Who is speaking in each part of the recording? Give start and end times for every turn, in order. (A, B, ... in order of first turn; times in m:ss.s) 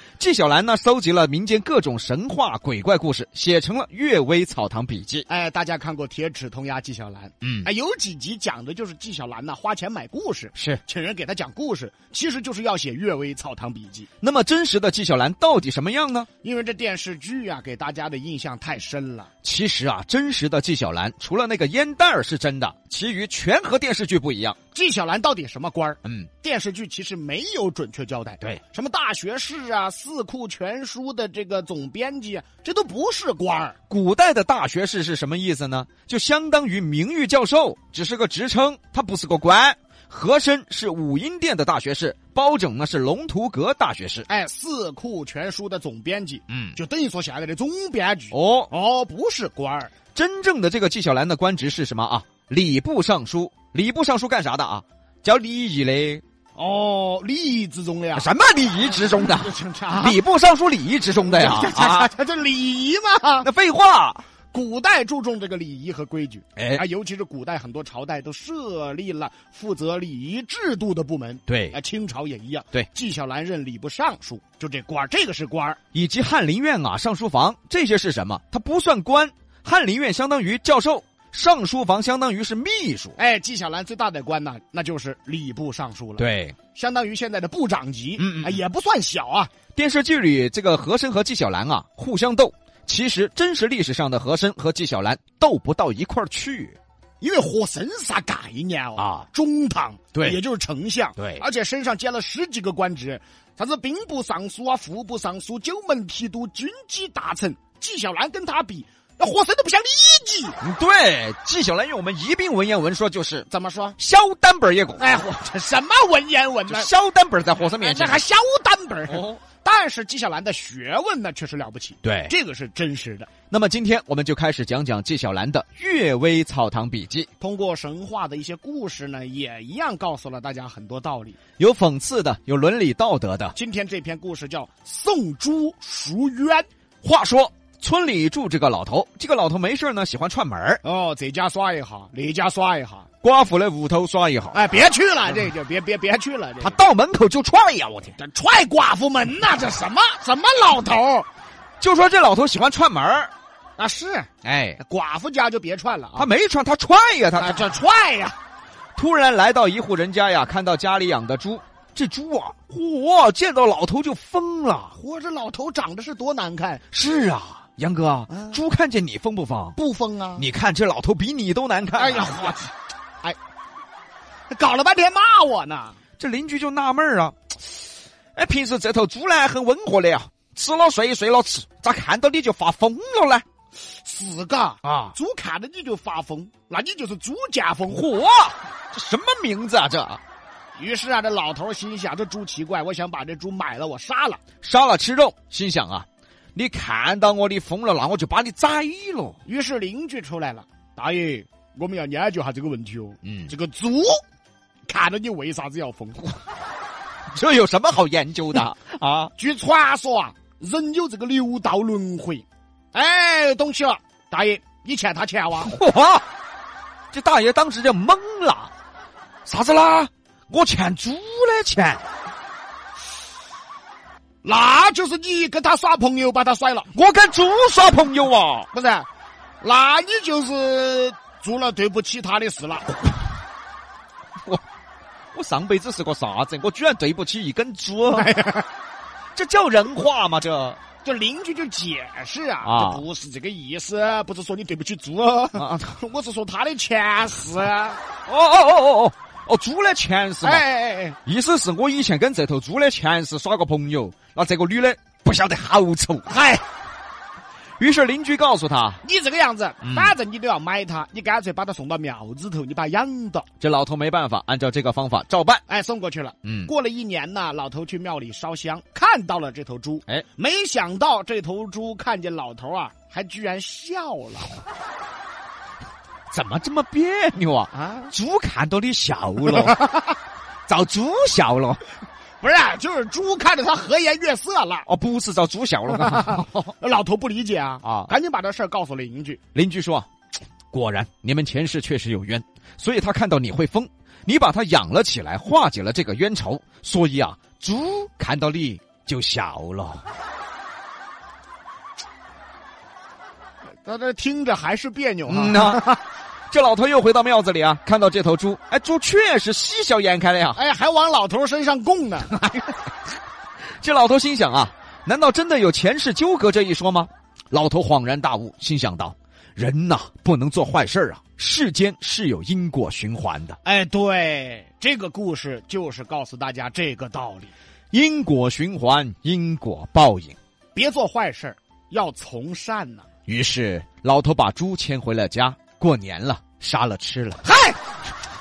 0:00.2-0:05.2 A
0:05.3-0:14.1 B
0:07.4-0:07.7 A
0:10.6-0:10.8 A
0:14.2-0:16.3 A
0:16.4-0:19.3 B
0:19.4-0:24.6 A
0:24.7-0:33.8 B
0:26.0-0:26.3 A
0:33.9-0:44.3 A
0:44.3-0:49.9 B
0:46.5-0:46.8 A
0:48.3-0:48.7 A
0:50.1-0:56.2 A
0:56.6-0:58.3 B
0:58.1-1:02.1 A
0:59.0-1:00.2 B
1:01.3-1:03.5 B
1:03.4-1:04.2 A
1:04.5-1:15.8 B
1:06.6-1:06.8 A
1:11.5-1:11.8 A
1:15.9-1:23.2 A
1:23.2-1:29.5 B
1:26.2-1:26.6 A
1:28.2-1:28.6 A
1:29.8-1:36.8 A
1:37.2-1:50.6 B
1:39.0-1:39.2 A
1:40.1-1:40.4 A
1:41.2-1:41.4 A
1:50.6-1:55.1 A
1:53.5-1:54.0 B
1:55.0-1:56.9 B
1:56.7-1:58.2 A
1:57.8-2:03.3 B
1:59.1-1:59.4 A
2:02.0-2:02.3 A
2:03.5-2:07.3 A
2:07.4-2:11.4 B
2:11.6-2:13.6 A
2:13.5-2:16.7 B
2:17.0-2:20.8 A
2:20.8-2:23.1 B
2:23.2-2:24.7 A
2:24.5-2:26.8 B
2:26.6-2:28.2 A
2:28.2-2:31.3 B
2:31.8-2:33.3 A
2:33.8-2:36.3 B
2:34.4-2:34.8 A
2:36.2-2:37.7 A
2:37.4-2:38.4 B
2:39.0-2:45.0 A
2:45.0-2:46.8 B
2:46.9-2:49.8 A
2:48.3-2:48.6 B
2:49.8-2:50.5 B
2:50.4-2:52.6 A
2:52.0-2:53.4 B
2:54.5-2:56.0 B
2:56.2-2:57.8 A
2:58.4-3:03.4 A
3:03.9-3:08.1 B
3:04.8-3:05.1 A
3:07.9-3:10.2 A
3:10.8-3:14.4 B
3:14.6-3:19.4 A
3:19.4-3:24.2 B
3:23.2-3:23.5 A
3:24.9-3:26.4 B
3:27.3-3:29.3 A
3:29.4-3:35.7 B
3:35.6-3:36.2 A
3:37.1-3:38.7 A
3:39.5-3:42.0 A
3:44.4-3:46.9 B
3:46.9-3:48.7 A
3:48.7-3:49.1 B
3:49.6-3:53.1 B
3:55.3-3:58.4 A
3:58.2-3:58.7 B
3:59.4-4:00.8 A
4:01.0-4:08.0 B
4:02.6-4:03.0 A
4:05.6-4:06.0 A
4:08.3-4:10.6 A
4:10.4-4:11.2 B
4:11.2-4:16.3 A
4:16.3-4:16.6 B
4:17.8-4:19.0 A
4:19.0-4:23.5 B
4:19.8-4:20.1 A
4:23.6-4:25.6 A
4:25.7-4:34.6 B
4:26.4-4:26.7 A
4:36.3-4:39.9 A
4:37.7-4:38.1 B
4:39.6-4:40.0 B
4:40.7-4:41.8 A
4:42.4-4:44.9 B
4:44.9-4:46.7 A
4:46.0-4:49.4 B
4:47.8-4:48.1 A
4:49.5-4:50.1 A
4:50.7-5:00.0 A
5:03.8-5:06.0 B
5:05.3-5:06.0 A
5:06.5-5:10.6 A
5:10.6-5:12.5 B
5:13.8-5:23.6 A
5:23.6-5:27.5 B
5:27.9-5:30.4 A
5:30.8-5:33.0 B
5:33.3-5:37.4 A
5:37.4-5:38.0 B